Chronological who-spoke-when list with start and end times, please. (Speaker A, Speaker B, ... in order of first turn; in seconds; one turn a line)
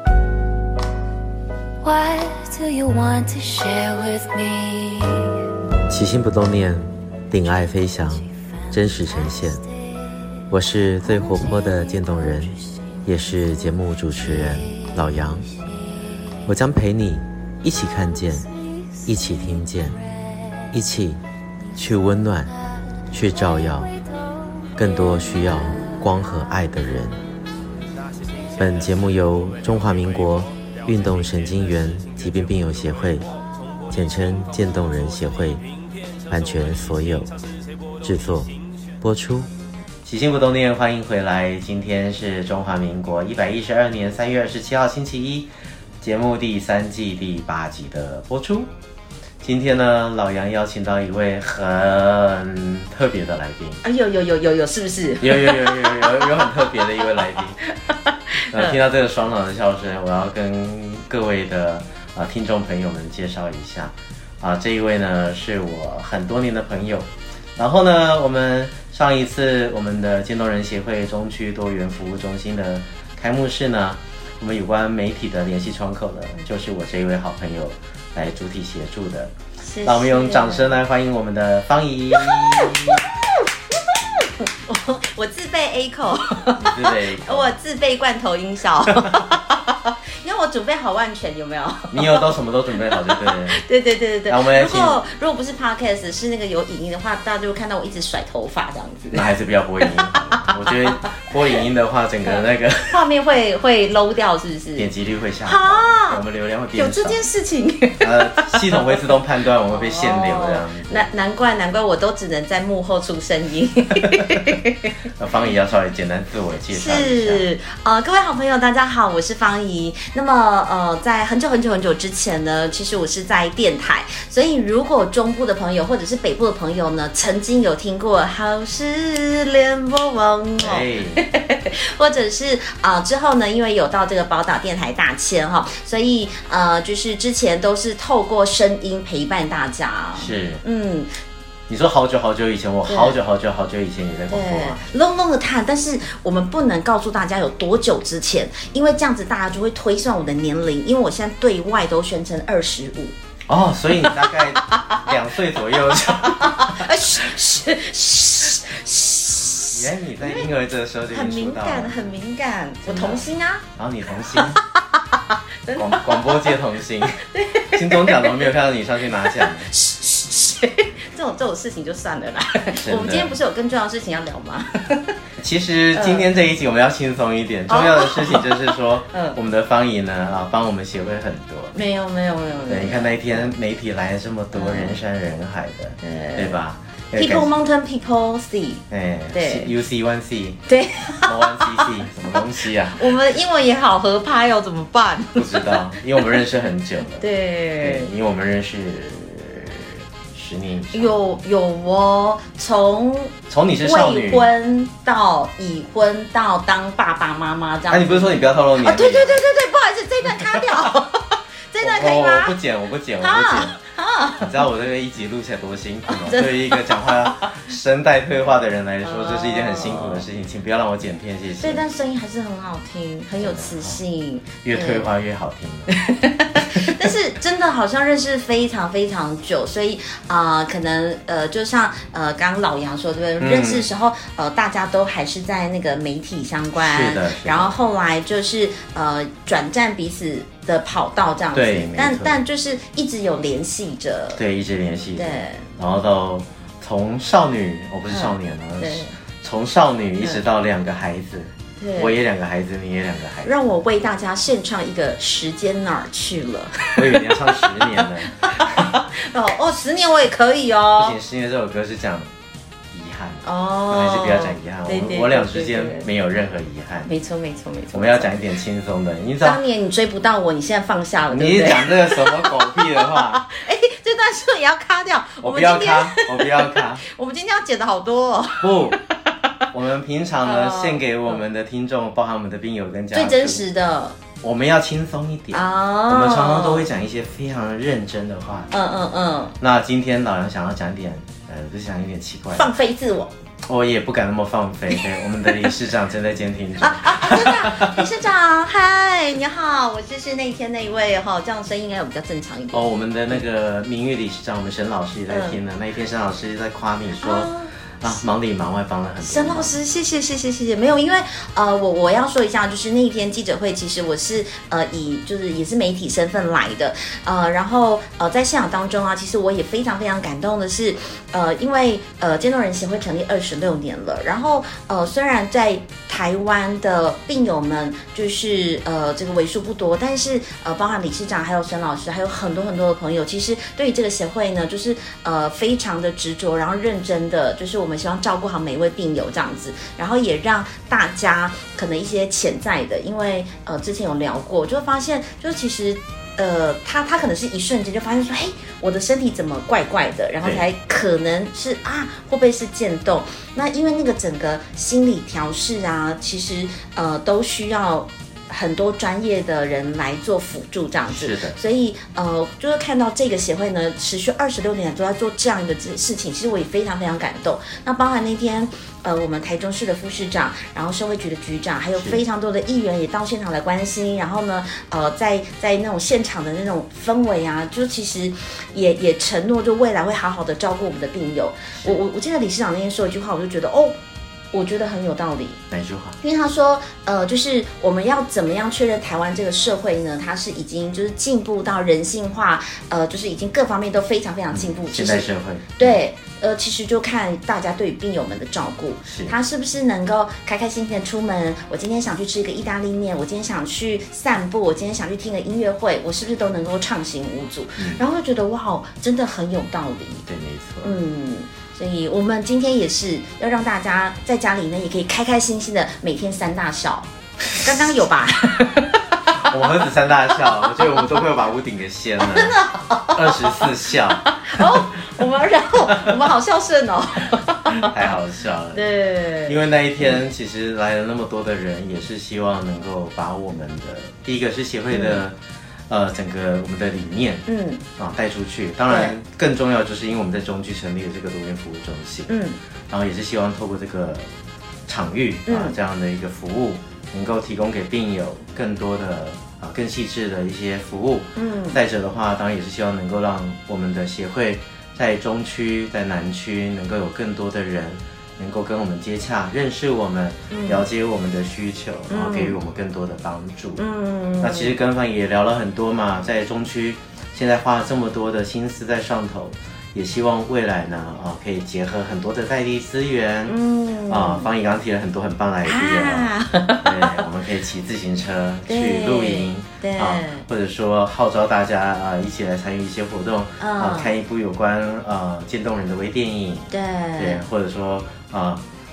Speaker A: 1.8-5.4
Speaker B: 5.9-9.6
Speaker B: 10.5-15.5
Speaker B: 16.4-18.5
Speaker B: 19.1-20.0
Speaker B: 20.7-21.2
Speaker B: 21.8-22.5
Speaker B: 23.1-23.9
Speaker B: 24.8-27.2
Speaker B: 28.6-33.3
Speaker B: 33.9-35.6
Speaker B: 36.3-37.3
Speaker B: 38.0-39.5
Speaker B: 40.0-45.5
Speaker B: 46.0-48.7
Speaker B: 49.4-53.8
Speaker C: 53.8-58.8
Speaker B: 55.2-57.6
Speaker B: 58.5-79.3
Speaker C: 79.6-80.8
Speaker B: 79.8-83.0
Speaker C: 82.1-92.3
Speaker B: 86.6-87.5
Speaker B: 88.9-89.2
Speaker B: 91.9-93.6
Speaker C: 92.9-99.3
Speaker B: 94.3-95.0
Speaker B: 99.1-103.0
Speaker C: 99.8-100.9
Speaker C: 102.9-104.9
Speaker B: 104.8-107.2
Speaker C: 105.4-106.2
Speaker C: 106.7-109.1
Speaker B: 108.0-111.1
Speaker C: 109.7-114.9
Speaker B: 115.2-117.5
Speaker C: 116.7-141.1
Speaker B: 130.6-131.2
Speaker B: 140.2-140.6
Speaker B: 141.7-144.8
Speaker C: 142.8-143.2
Speaker C: 144.3-153.1
Speaker B: 153.5-157.2
Speaker C: 154.0-160.5
Speaker B: 159.7-162.0
Speaker C: 161.1-163.6
Speaker B: 162.8-164.6
Speaker C: 164.3-166.6
Speaker B: 165.7-169.7
Speaker C: 167.1-168.5
Speaker C: 169.2-175.1
Speaker B: 172.8-173.3
Speaker B: 175.4-181.8
Speaker C: 175.9-176.3
Speaker C: 177.7-179.4
Speaker C: 181.7-183.5
Speaker B: 182.7-187.5
Speaker C: 184.5-185.0
Speaker C: 186.0-186.6
Speaker C: 187.1-189.7
Speaker B: 188.9-190.6
Speaker C: 190.7-195.9
Speaker B: 191.2-193.2
Speaker B: 195.3-197.3
Speaker C: 197.1-198.1
Speaker B: 197.8-201.2
Speaker C: 200.9-212.6
Speaker B: 203.5-204.5
Speaker B: 207.9-209.4
Speaker B: 210.4-210.9
Speaker B: 211.8-213.8
Speaker C: 213.2-214.6
Speaker B: 214.4-221.8
Speaker C: 216.1-217.5
Speaker C: 219.0-220.2
Speaker C: 221.6-225.1
Speaker B: 223.4-224.0
Speaker B: 224.6-225.9
Speaker C: 225.9-244.4
Speaker B: 226.6-226.9
Speaker B: 233.4-233.9
Speaker B: 236.7-237.8
Speaker B: 241.5-242.4
Speaker B: 244.3-253.5
Speaker C: 245.2-245.7
Speaker C: 248.1-249.1
Speaker C: 251.8-252.2
Speaker C: 253.4-261.2
Speaker B: 256.9-258.9
Speaker B: 261.0-262.3
Speaker B: 262.9-267.1
Speaker C: 263.4-266.1
Speaker C: 267.0-268.3
Speaker B: 267.9-269.6
Speaker C: 269.4-278.9
Speaker B: 271.3-273.4
Speaker B: 275.4-277.0
Speaker B: 278.6-279.0
Speaker B: 279.7-283.6
Speaker C: 280.4-281.4
Speaker C: 283.1-284.2
Speaker B: 284.4-288.7
Speaker C: 285.5-286.9
Speaker C: 288.7-289.6
Speaker B: 289.6-292.7
Speaker C: 292.5-293.3
Speaker B: 293.7-298.1
Speaker C: 294.9-295.7
Speaker C: 296.8-303.4
Speaker B: 302.7-309.7
Speaker C: 305.3-305.6
Speaker C: 307.2-307.7
Speaker C: 309.2-383.9
Speaker B: 350.4-350.7
Speaker B: 361.1-361.6
Speaker B: 372.0-372.2
Speaker C: 384.5-385.6
Speaker B: 385.7-386.2
Speaker C: 386.2-410.2
Speaker B: 394.5-396.0
Speaker B: 399.1-399.4
Speaker B: 407.8-408.0
Speaker B: 410.3-411.0
Speaker C: 410.8-419.6
Speaker B: 419.3-422.6
Speaker C: 420.4-421.0
Speaker C: 422.2-427.9
Speaker B: 423.1-424.8
Speaker B: 425.8-426.2
Speaker B: 427.7-428.9
Speaker C: 428.7-430.2
Speaker B: 429.4-435.4
Speaker C: 434.9-435.2
Speaker B: 435.9-437.4
Speaker C: 437.5-437.8
Speaker B: 438.0-442.3
Speaker C: 438.9-439.1
Speaker C: 442.3-442.6
Speaker B: 442.9-444.3
Speaker B: 444.9-463.8
Speaker C: 445.4-445.8
Speaker C: 451.4-451.8
Speaker C: 460.5-460.9
Speaker C: 462.1-462.6
Speaker C: 463.8-464.8
Speaker B: 464.4-488.6
Speaker C: 473.5-474.5
Speaker C: 475.6-477.2
Speaker C: 478.7-480.4
Speaker C: 483.6-484.1
Speaker C: 486.7-487.4